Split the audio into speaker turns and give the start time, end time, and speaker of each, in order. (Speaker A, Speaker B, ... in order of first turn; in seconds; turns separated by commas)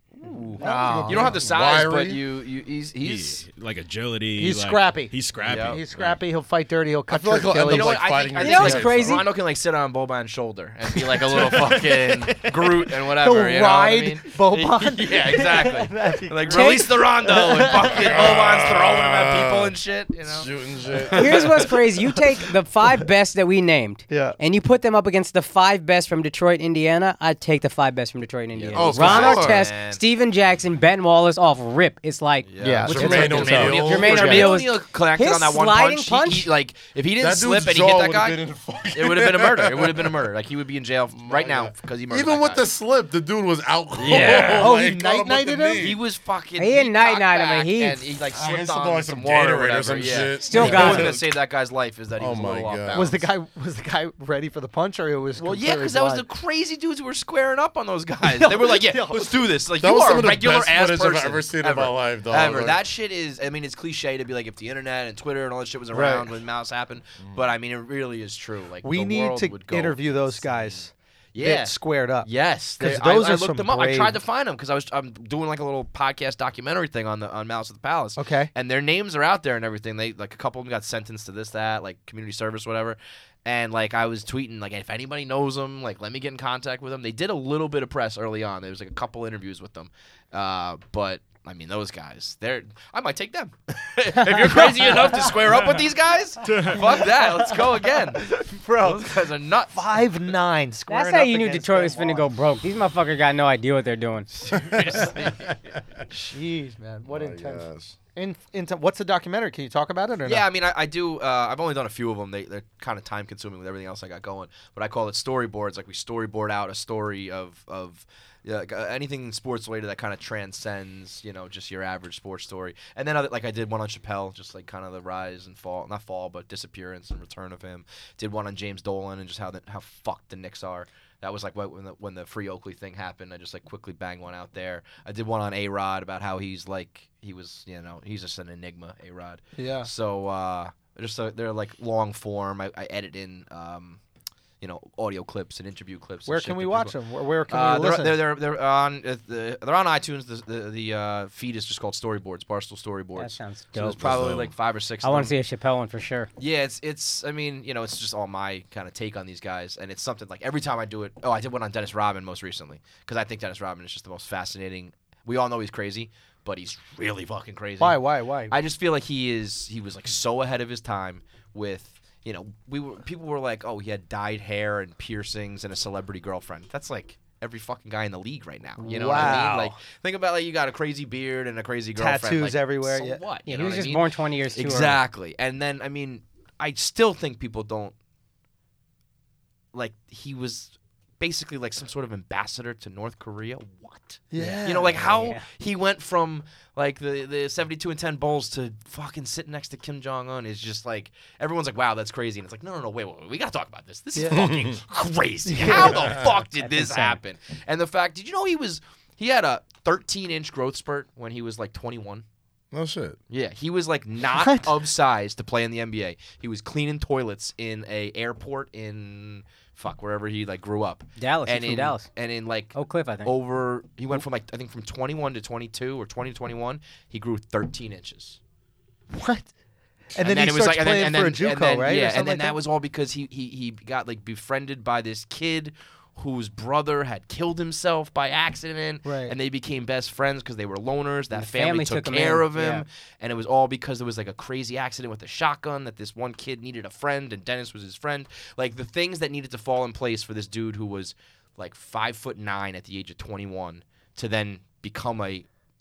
Speaker A: 0.2-3.5, Speaker B: 0.5-2.2, Speaker C: 0.6-1.4, Speaker D: 3.0-6.2, Speaker C: 4.4-8.0, Speaker A: 5.4-5.8, Speaker B: 7.1-9.3, Speaker A: 7.5-21.6, Speaker E: 8.4-9.3, Speaker C: 11.1-18.3, Speaker E: 16.5-16.9, Speaker B: 17.8-19.7, Speaker B: 20.3-21.8, Speaker E: 21.1-36.5, Speaker C: 24.1-24.4, Speaker A: 28.6-30.0, Speaker B: 28.8-29.7, Speaker A: 32.5-38.4, Speaker C: 32.6-34.4, Speaker B: 32.9-34.6, Speaker B: 37.2-40.2, Speaker A: 38.9-42.7, Speaker B: 41.1-46.0, Speaker A: 44.0-44.8, Speaker E: 44.1-44.6, Speaker C: 44.5-46.0, Speaker A: 45.8-53.2, Speaker E: 46.6-48.0, Speaker B: 48.3-51.3, Speaker E: 50.4-51.1, Speaker B: 52.2-53.1, Speaker C: 52.9-56.3, Speaker A: 55.4-70.8, Speaker C: 58.2-59.3, Speaker B: 59.7-62.8, Speaker C: 65.9-66.3, Speaker C: 68.8-74.2, Speaker A: 71.3-99.7, Speaker C: 78.2-78.5, Speaker C: 94.7-95.3, Speaker C: 96.6-99.2, Speaker C: 99.7-102.3, Speaker E: 100.9-104.3, Speaker A: 104.3-105.5, Speaker B: 104.5-105.5, Speaker C: 106.2-110.5, Speaker B: 107.1-108.0, Speaker A: 110.2-144.0, Speaker C: 139.6-139.9, Speaker A: 144.6-146.9, Speaker C: 146.3-148.2, Speaker A: 147.5-155.3, Speaker E: 153.2-154.2, Speaker B: 154.0-154.5, Speaker E: 155.0-156.3, Speaker A: 156.4-184.1, Speaker C: 167.8-168.6, Speaker C: 178.8-179.8, Speaker C: 182.0-183.2, Speaker E: 183.5-185.0, Speaker A: 184.6-187.9, Speaker A: 189.7-212.2, Speaker C: 194.3-195.1, Speaker E: 195.1-195.4, Speaker C: 204.2-204.5, Speaker B: 204.3-204.8, Speaker C: 205.5-206.2, Speaker E: 206.6-207.2, Speaker B: 212.7-213.2, Speaker A: 213.3-228.4, Speaker C: 214.3-214.7, Speaker E: 221.2-222.1, Speaker E: 222.7-223.3, Speaker C: 229.1-229.5, Speaker C: 230.1-232.6, Speaker A: 230.2-255.5, Speaker C: 239.1-239.3, Speaker E: 241.3-242.8